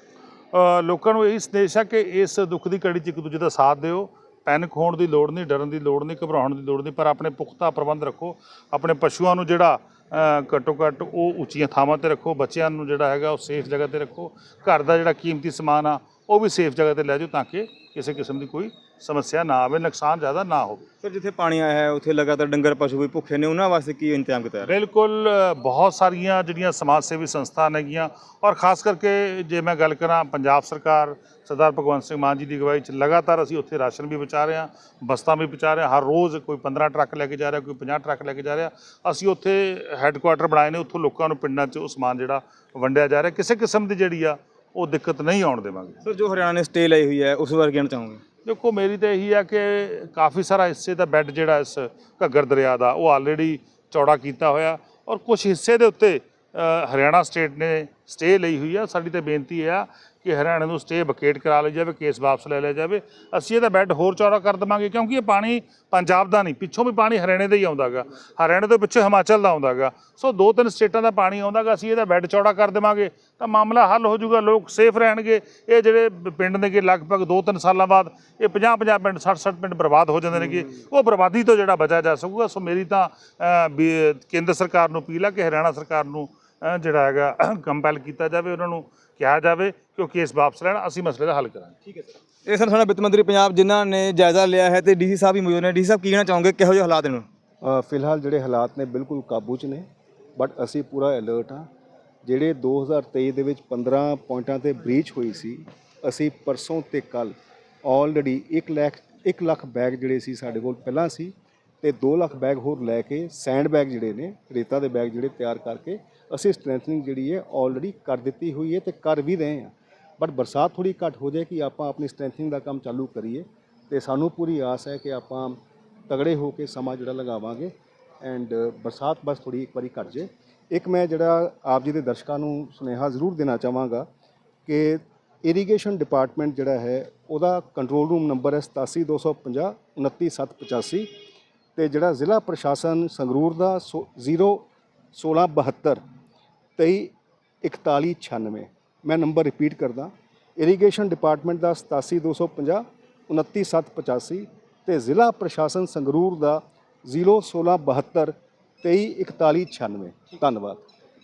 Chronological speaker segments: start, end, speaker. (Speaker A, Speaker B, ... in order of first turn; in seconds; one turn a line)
Speaker A: 0.5-20.8
Speaker B: 21.0-24.7
Speaker A: 24.7-46.0
Speaker B: 46.0-48.2
Speaker A: 48.5-92.0
Speaker B: 92.5-97.3
Speaker C: 97.6-101.7
Speaker C: 102.2-125.6
Speaker C: 126.1-134.1
Speaker C: 134.7-141.1
Speaker C: 141.8-146.0
Speaker C: 146.8-147.1
Speaker C: 147.6-160.8